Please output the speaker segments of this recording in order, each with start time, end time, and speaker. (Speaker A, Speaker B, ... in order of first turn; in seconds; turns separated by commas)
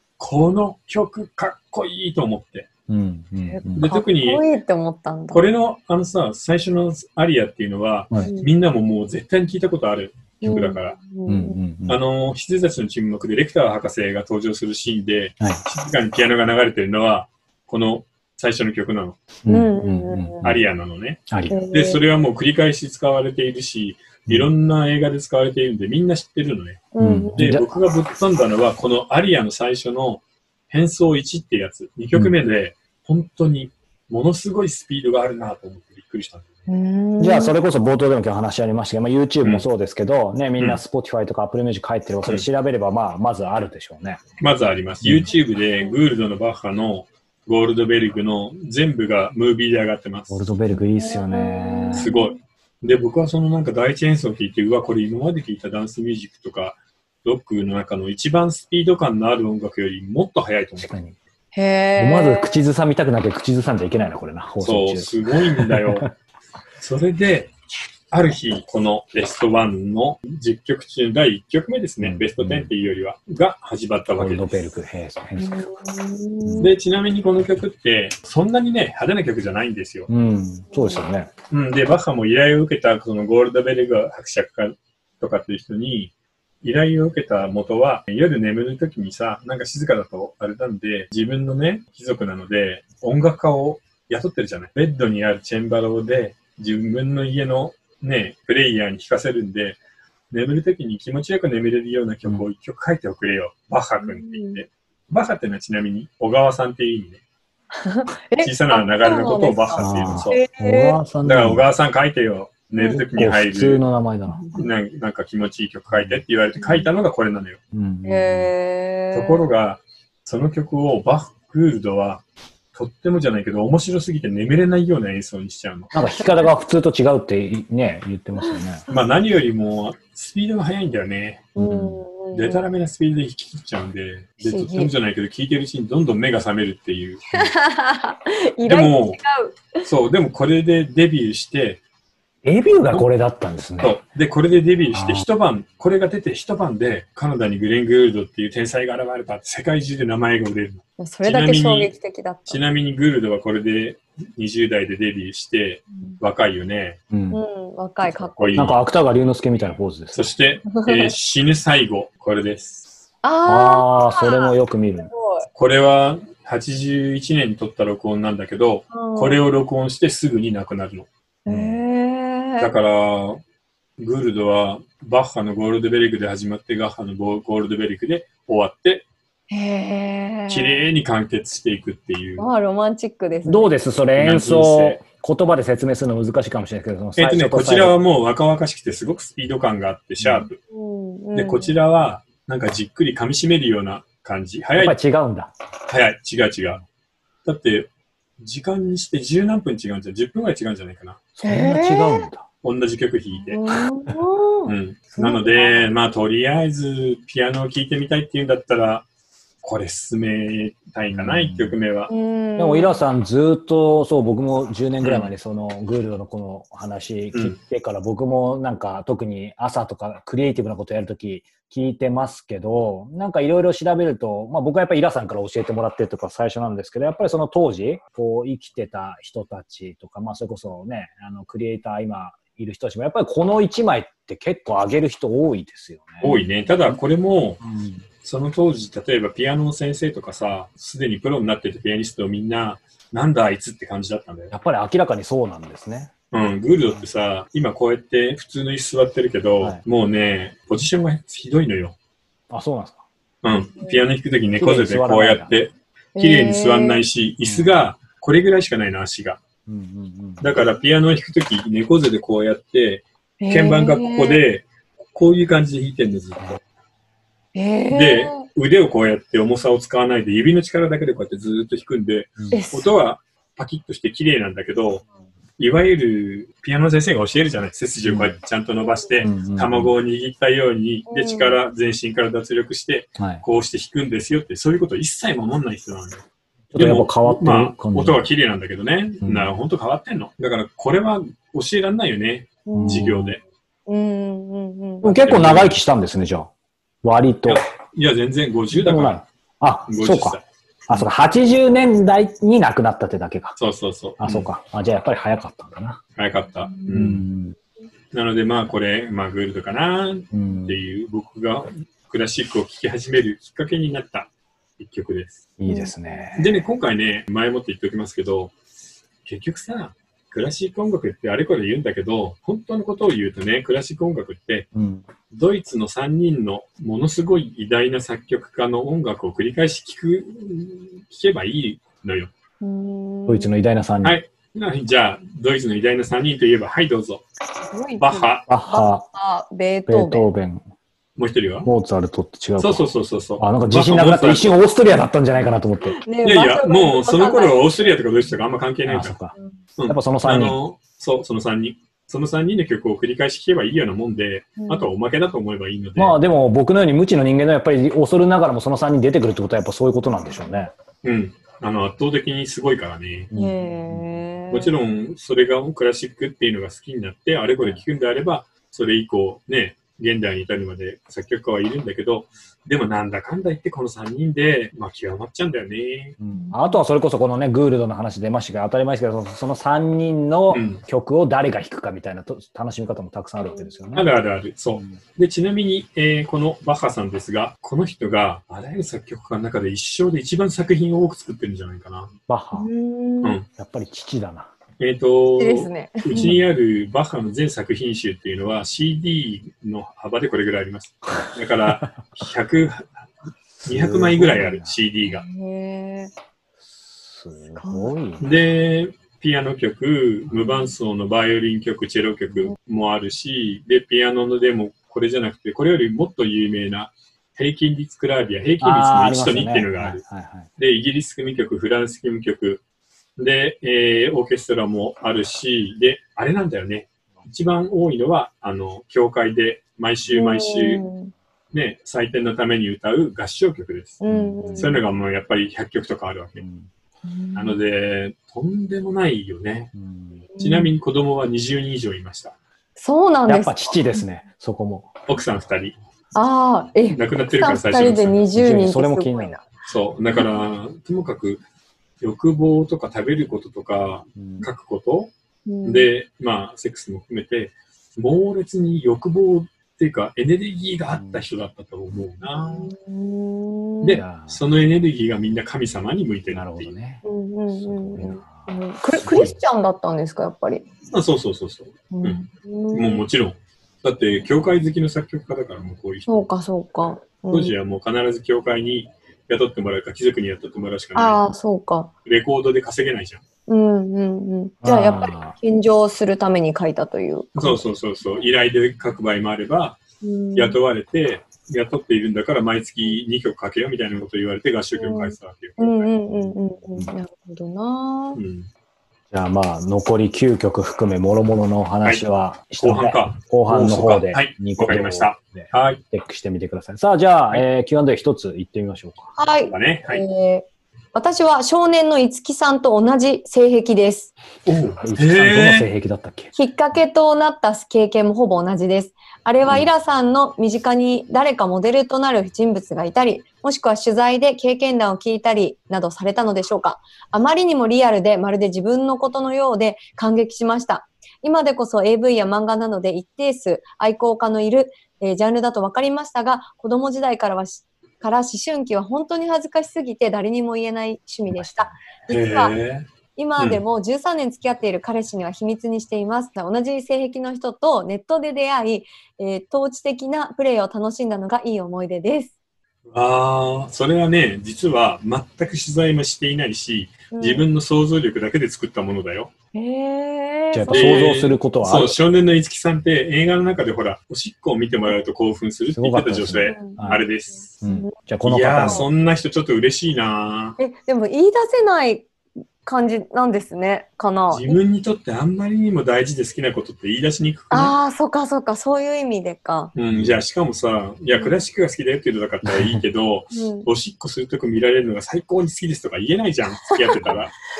Speaker A: 0.2-2.7, Speaker B: 2.9-3.9, Speaker C: 3.4-5.4, Speaker A: 3.8-4.4, Speaker A: 5.3-11.0, Speaker C: 8.2-8.5, Speaker C: 10.4-11.6, Speaker B: 10.4-10.7, Speaker B: 11.2-12.0, Speaker A: 11.9-19.2, Speaker B: 19.4-20.6, Speaker C: 19.5-20.5, Speaker A: 20.4-26.8, Speaker B: 21.3-21.5, Speaker C: 21.5-22.0, Speaker C: 26.9-27.4, Speaker B: 27.0-27.7, Speaker A: 27.4-36.5, Speaker C: 36.7-37.5, Speaker B: 37.2-44.2, Speaker A: 39.4-39.7, Speaker A: 44.4-50.4, Speaker B: 45.0-45.3, Speaker C: 45.6-46.0, Speaker B: 50.3-52.1, Speaker C: 50.7-52.4, Speaker A: 51.9-60.9, Speaker B: 60.8-61.1, Speaker C: 61.5-62.6, Speaker B: 62.0-66.1, Speaker A: 64.6-66.1, Speaker A: 66.8-67.5, Speaker A: 68.1-74.6, Speaker B: 72.0-72.7, Speaker B: 74.1-75.6, Speaker C: 75.4-76.7, Speaker B: 76.4-76.7, Speaker A: 76.6-80.1, Speaker B: 80.1-81.3, Speaker C: 80.7-81.0, Speaker A: 81.5-99.8, Speaker A: 100.3-107.2, Speaker C: 104.0-104.6, Speaker C: 107.7-111.0, Speaker A: 108.4-110.4, Speaker B: 109.8-111.6, Speaker A: 111.2-113.8, Speaker C: 112.7-113.0, Speaker B: 113.2-114.4, Speaker C: 114.3-114.6, Speaker A: 114.5-117.6, Speaker B: 115.9-116.2, Speaker C: 116.6-116.9, Speaker B: 117.7-118.5, Speaker C: 118.0-119.5, Speaker A: 119.1-125.9, Speaker B: 125.9-128.8, Speaker C: 126.0-126.5, Speaker A: 128.9-131.5, Speaker C: 131.6-132.6, Speaker B: 131.6-132.0, Speaker A: 132.3-137.3, Speaker C: 134.4-134.9, Speaker C: 137.3-139.8, Speaker A: 138.6-139.2, Speaker A: 139.8-141.8, Speaker B: 142.4-143.9, Speaker A: 143.8-151.9, Speaker B: 144.9-145.2, Speaker C: 151.0-152.6, Speaker A: 152.4-157.0, Speaker B: 157.1-157.4, Speaker C: 157.3-158.7, Speaker A: 158.2-158.8, Speaker B: 158.5-160.3, Speaker A: 160.1-162.8, Speaker C: 160.7-161.1, Speaker C: 163.2-165.5, Speaker B: 163.4-165.1, Speaker A: 165.5-171.1, Speaker C: 168.9-169.4, Speaker C: 171.4-172.7, Speaker B: 171.5-171.8, Speaker A: 172.6-173.4, Speaker A: 174.0-179.0, Speaker C: 179.5-180.9, Speaker A: 180.5-182.5, Speaker C: 182.4-183.7, Speaker B: 183.4-188.0, Speaker A: 184.1-185.0, Speaker A: 187.2-190.6, Speaker B: 190.2-190.5, Speaker C: 190.7-191.7, Speaker A: 191.3-195.0, Speaker B: 194.8-195.5, Speaker A: 195.9-196.8, Speaker A: 197.4-197.9, Speaker A: 198.4-201.2, Speaker B: 201.3-202.4, Speaker C: 201.4-202.3, Speaker A: 202.6-203.6, Speaker C: 203.4-205.9, Speaker A: 204.7-209.1, Speaker A: 209.6-212.1, Speaker B: 211.1-211.8, Speaker C: 212.1-213.0, Speaker B: 212.6-236.3, Speaker A: 215.0-215.3, Speaker A: 236.2-237.6, Speaker C: 236.2-236.5, Speaker B: 237.6-238.0, Speaker A: 238.2-244.5, Speaker B: 244.5-246.1, Speaker A: 246.3-251.9, Speaker B: 252.5-253.0, Speaker A: 253.4-259.4, Speaker B: 254.5-255.5, Speaker C: 256.1-257.0, Speaker B: 257.4-257.8, Speaker B: 259.6-260.6, Speaker A: 260.4-266.6, Speaker C: 263.4-264.4, Speaker C: 267.5-268.4, Speaker A: 267.9-275.0, Speaker B: 272.4-272.6, Speaker C: 272.5-272.9, Speaker A: 275.6-286.2, Speaker B: 278.0-278.4, Speaker C: 278.8-279.1, Speaker B: 279.2-279.9, Speaker C: 281.1-281.6, Speaker B: 283.2-283.4, Speaker B: 286.7-288.3, Speaker A: 286.8-293.4, Speaker B: 289.2-289.5, Speaker C: 292.6-293.2, Speaker B: 292.7-293.4, Speaker C: 293.9-295.2, Speaker B: 295.0-296.5, Speaker A: 295.2-295.8, Speaker B: 297.0-297.6, Speaker A: 297.5-299.2, Speaker B: 298.7-303.6, Speaker A: 299.9-301.1, Speaker A: 303.6-304.5, Speaker B: 304.2-306.0, Speaker A: 306.1-307.2, Speaker C: 306.6-306.9, Speaker B: 306.9-307.5, Speaker A: 308.1-315.4, Speaker B: 310.3-310.8, Speaker B: 315.6-316.6, Speaker C: 315.6-316.3, Speaker A: 316.4-318.5, Speaker A: 319.2-324.7, Speaker B: 324.7-325.0, Speaker A: 325.3-332.3, Speaker C: 332.6-333.5, Speaker B: 333.3-334.2, Speaker A: 334.0-337.2, Speaker C: 337.7-340.3, Speaker A: 338.0-338.5, Speaker B: 338.5-339.1, Speaker B: 339.9-340.6, Speaker A: 341.2-341.7, Speaker B: 341.6-346.0, Speaker A: 342.6-344.6, Speaker C: 345.8-348.0, Speaker A: 346.2-349.2, Speaker B: 348.8-349.3, Speaker A: 349.8-356.2, Speaker B: 349.9-350.6, Speaker C: 354.6-354.9, Speaker B: 355.9-360.7, Speaker C: 360.2-360.6, Speaker A: 361.0-363.3, Speaker B: 363.3-364.2, Speaker C: 363.3-364.8, Speaker A: 364.5-376.1, Speaker B: 367.6-367.9, Speaker B: 376.2-384.1, Speaker C: 376.3-376.8, Speaker A: 380.5-380.8, Speaker C: 383.4-383.8, Speaker A: 383.9-392.1, Speaker B: 384.7-385.0, Speaker B: 392.3-392.7, Speaker C: 392.5-393.4, Speaker A: 393.2-393.5, Speaker B: 393.6-394.5, Speaker A: 394.8-402.9, Speaker C: 395.4-396.3, Speaker B: 396.1-396.5, Speaker B: 401.2-401.9, Speaker B: 403.6-404.8, Speaker A: 403.6-405.2, Speaker C: 405.0-406.1, Speaker B: 406.6-408.3, Speaker C: 407.6-407.9, Speaker A: 408.2-420.0, Speaker B: 418.6-420.5, Speaker A: 420.6-422.6, Speaker A: 423.2-430.8, Speaker C: 430.1-431.1, Speaker A: 431.5-434.0, Speaker C: 434.0-434.8, Speaker B: 434.1-434.8, Speaker A: 434.6-436.4, Speaker B: 436.4-436.7, Speaker C: 437.0-437.6, Speaker A: 437.3-439.7, Speaker B: 439.7-440.2, Speaker C: 440.3-440.7, Speaker A: 440.4-442.4, Speaker C: 442.8-444.1, Speaker B: 443.2-444.9, Speaker A: 445.1-445.8, Speaker C: 446.1-449.4, Speaker A: 446.9-448.3, Speaker B: 448.3-449.4, Speaker A: 449.6-451.4, Speaker A: 452.0-455.1, Speaker B: 454.2-454.5, Speaker C: 455.4-455.9, Speaker A: 455.6-462.7, Speaker B: 460.9-461.2, Speaker C: 462.4-464.0, Speaker A: 463.8-466.7, Speaker B: 463.9-464.4, Speaker B: 466.3-468.6, Speaker C: 467.0-470.6, Speaker A: 468.9-469.4, Speaker A: 470.9-476.2, Speaker C: 471.9-473.0, Speaker C: 476.1-477.5, Speaker A: 477.3-481.2, Speaker C: 480.9-481.9, Speaker A: 482.0-483.2, Speaker C: 483.5-487.6, Speaker B: 484.6-485.4, Speaker A: 487.3-489.8, Speaker C: 490.0-490.6, Speaker A: 490.3-495.9, Speaker C: 494.8-498.2, Speaker B: 496.1-496.9, Speaker A: 498.1-498.5, Speaker B: 499.1-509.1, Speaker A: 502.6-505.8, Speaker C: 509.1-514.1, Speaker A: 509.4-510.0, Speaker A: 514.5-515.7, Speaker B: 514.8-516.3, Speaker C: 516.3-542.5, Speaker B: 541.3-542.0, Speaker A: 542.1-542.9, Speaker C: 543.1-552.3, Speaker A: 543.4-543.6, Speaker A: 552.9-559.3, Speaker C: 557.1-557.5, Speaker C: 559.5-561.1, Speaker B: 560.5-562.0, Speaker A: 560.7-567.6, Speaker B: 565.7-567.1, Speaker C: 566.4-566.9, Speaker B: 567.6-568.8, Speaker C: 567.6-567.9, Speaker A: 568.2-570.6, Speaker C: 570.6-572.1, Speaker C: 572.6-574.6, Speaker A: 574.3-577.7, Speaker C: 577.5-579.7, Speaker A: 579.7-587.3, Speaker B: 579.9-580.2, Speaker C: 581.1-581.4, Speaker B: 582.4-582.8, Speaker C: 583.3-583.7, Speaker C: 586.7-587.2